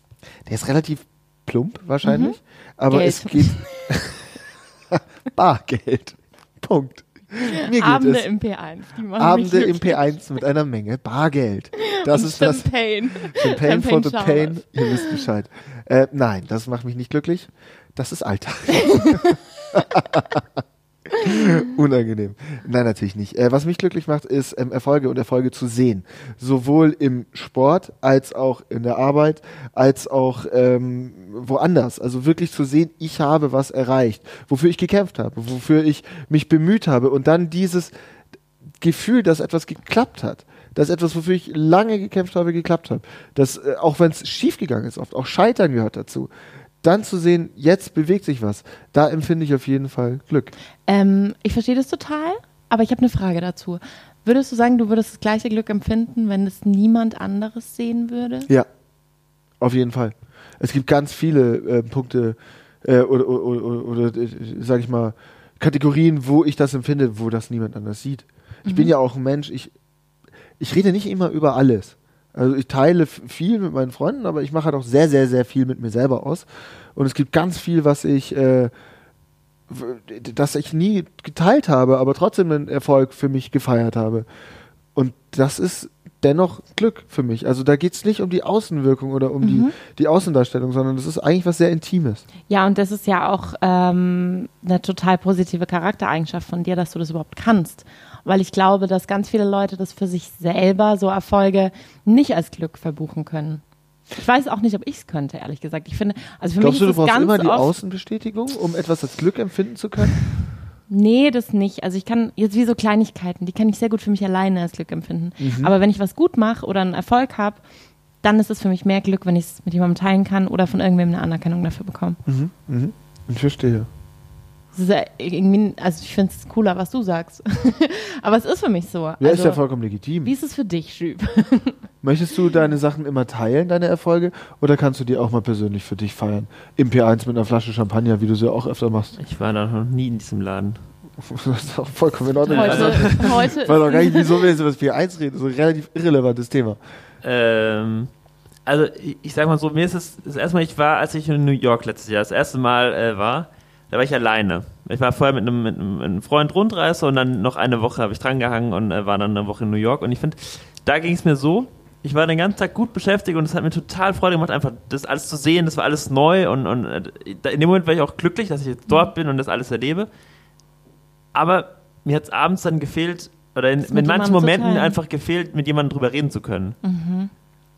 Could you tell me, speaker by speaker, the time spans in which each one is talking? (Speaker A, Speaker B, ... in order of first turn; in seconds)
Speaker A: 0.5-4.3, 4.9-8.2, 9.2-20.5, 21.1-37.9, 38.8-46.3, 46.8-50.5, 59.6-69.7, 70.6-78.7, 79.7-84.3, 85.0-92.2, 106.6-110.2, 115.4-115.7, 122.3-123.9, 129.2-130.3, 132.0-139.2, 141.2-146.8
Speaker B: 2.0-2.4, 2.9-3.7, 7.5-10.2, 11.8-15.3, 18.9-19.4, 50.9-58.5, 68.7-68.9, 89.4-89.7, 92.5-103.6, 104.2-107.7, 110.9-117.6, 118.2-122.2, 124.7-129.6, 130.2-131.8, 142.5-144.5, 173.9-175.0, 176.8-177.3
Speaker C: 139.2-140.8, 142.5-143.4, 147.2-148.1, 148.7-170.1, 171.3-176.8